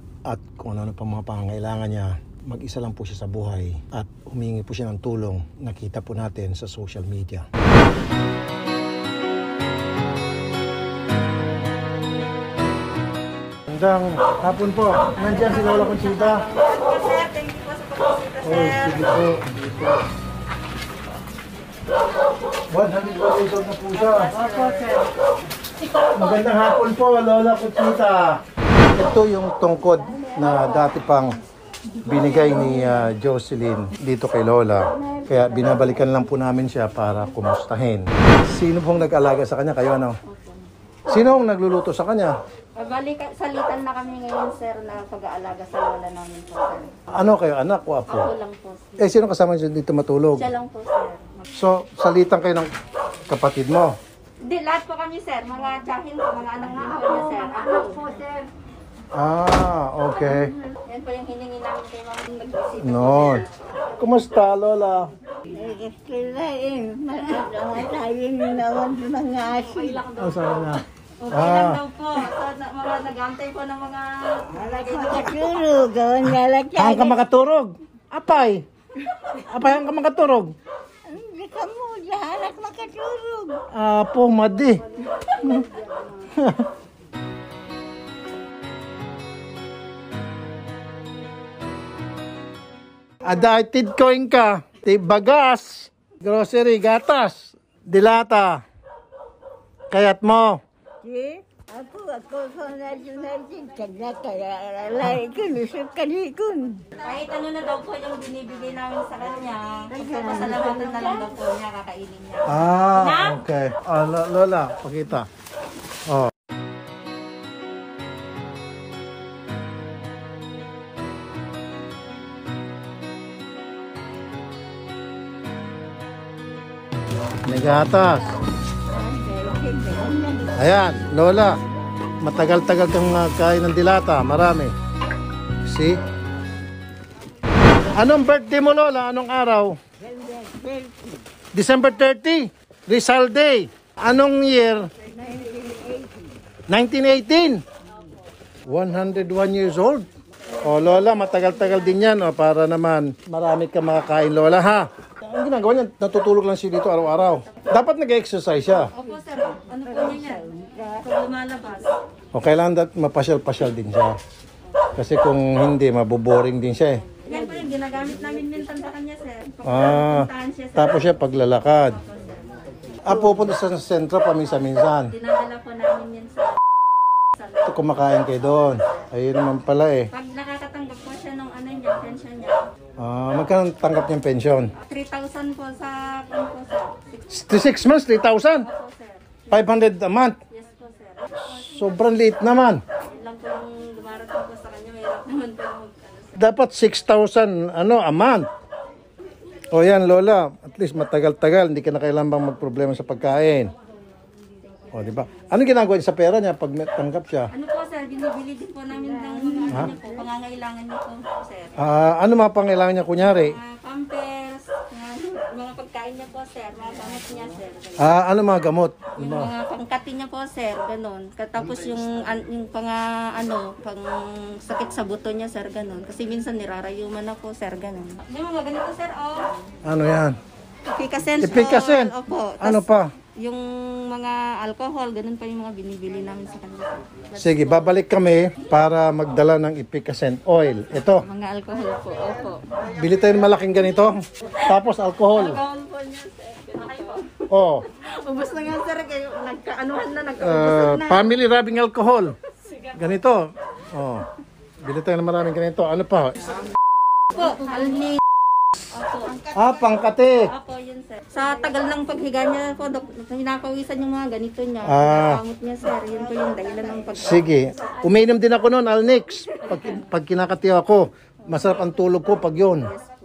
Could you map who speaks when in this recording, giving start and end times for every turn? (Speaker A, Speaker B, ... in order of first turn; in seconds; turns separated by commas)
Speaker A: 0.3-7.5, Speaker A: 13.7-16.5, Speaker B: 15.7-18.9, Speaker A: 18.4-20.0, Speaker A: 22.7-24.4, Speaker B: 24.4-24.9, Speaker A: 26.1-28.4, Speaker A: 28.9-31.4, Speaker A: 32.0-40.2, Speaker A: 41.1-42.4, Speaker B: 42.8-46.9, Speaker A: 47.1-48.3, Speaker B: 48.1-49.0, Speaker A: 49.0-50.5, Speaker B: 50.4-51.2, Speaker A: 51.5-52.7, Speaker A: 53.3-54.0, Speaker B: 54.4-58.4, Speaker A: 59.1-60.5, Speaker B: 60.9-63.4, Speaker A: 62.8-63.5, Speaker A: 64.0-65.1, Speaker C: 65.5-70.0, Speaker B: 70.0-70.3, Speaker A: 70.2-71.8, Speaker B: 71.2-75.4, Speaker C: 74.5-77.2, Speaker A: 76.7-78.6, Speaker A: 79.4-80.5, Speaker C: 81.1-83.6, Speaker A: 83.7-85.7, Speaker A: 86.3-86.7, Speaker A: 93.2-98.6, Speaker A: 99.9-100.6, Speaker C: 101.0-106.8, Speaker B: 107.0-113.4, Speaker C: 109.9-111.3, Speaker A: 112.5-115.3, Speaker A: 116.1-116.3, Speaker A: 127.5-128.3, Speaker C: 128.9-130.5, Speaker A: 130.6-131.6, Speaker A: 132.2-134.7, Speaker A: 135.7-136.0, Speaker A: 137.9-139.8, Speaker C: 140.4-141.2, Speaker A: 141.5-144.9, Speaker C: 145.6-145.9, Speaker A: 146.7-147.6, Speaker A: 148.7-150.1, Speaker A: 150.6-158.9, Speaker B: 158.9-161.9, Speaker A: 162.3-164.2, Speaker A: 164.9-167.0, Speaker B: 167.2-171.1, Speaker A: 169.6-172.0, Speaker B: 172.1-172.4, Speaker A: 173.1-175.1, Speaker B: 175.1-176.6, Speaker B: 177.3-177.7, Speaker A: 177.7-180.1, Speaker B: 180.1-182.7, Speaker A: 183.0-184.7, Speaker B: 184.8-187.2, Speaker A: 187.3-188.7, Speaker B: 188.7-189.3, Speaker A: 189.5-190.4, Speaker B: 190.5-191.3, Speaker A: 191.5-192.8, Speaker B: 193.1-196.3, Speaker A: 196.4-198.5, Speaker A: 199.7-203.7, Speaker A: 204.9-207.5, Speaker B: 207.5-211.7, Speaker A: 211.8-213.6, Speaker B: 213.4-217.9, Speaker A: 218.0-219.5, Speaker B: 219.2-229.5, Speaker A: 229.8-230.4, Speaker B: 230.8-237.5, Speaker A: 231.4-233.1, Speaker A: 237.4-241.2, Speaker B: 241.2-242.7, Speaker A: 242.8-245.6, Speaker B: 245.3-247.3, Speaker A: 247.5-247.8, Speaker B: 248.1-251.3, Speaker A: 250.4-252.3, Speaker A: 252.9-254.3, Speaker A: 254.8-256.5, Speaker B: 257.3-258.2, Speaker B: 258.9-259.4, Speaker A: 259.5-260.5, Speaker B: 260.5-267.4, Speaker A: 264.8-265.4, Speaker A: 267.1-272.9